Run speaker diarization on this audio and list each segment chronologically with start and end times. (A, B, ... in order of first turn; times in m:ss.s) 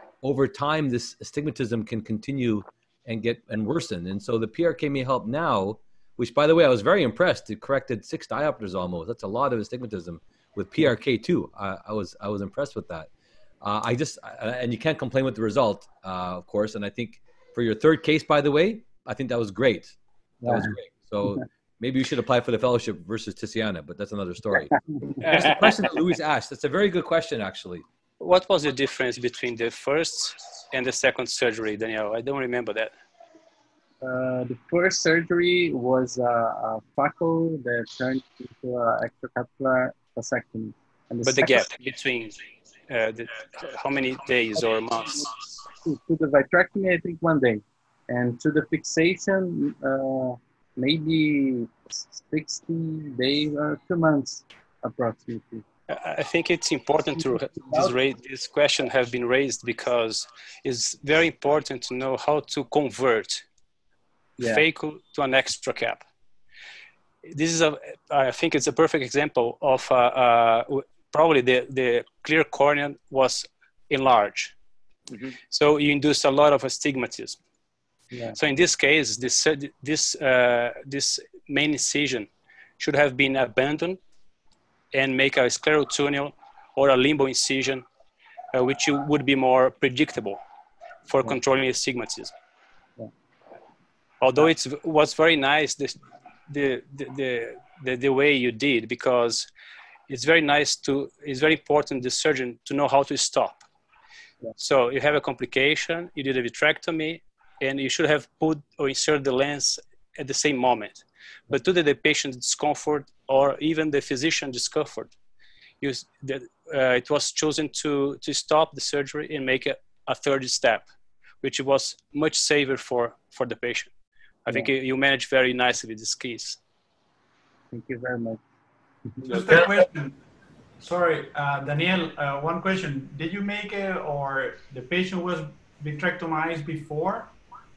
0:00.2-0:13.1 A
0:13.6-0:27.8 A
0:20.4-0:20.8 B
0:28.2-0:32.9 C
0:34.0-0:41.6 B
0:41.2-0:42.4 C
0:42.9-0:45.4 C
0:45.0-0:55.6 B
0:55.9-1:03.4 C
0:57.2-0:57.9 B
1:04.4-1:06.0 C
1:07.2-1:14.5 C
1:15.5-1:17.4 C
1:18.4-1:24.0 C
1:24.9-1:27.8 C
1:28.5-1:30.4 C
1:31.0-1:32.3 C
1:34.2-1:39.5 C
1:40.1-1:43.6 C
1:44.6-1:55.1 C
1:55.8-2:00.9 C
2:01.4-2:03.9 C
2:04.4-2:06.6 C
2:07.7-2:08.4 B
2:09.2-2:10.2 D
2:10.8-2:17.3 D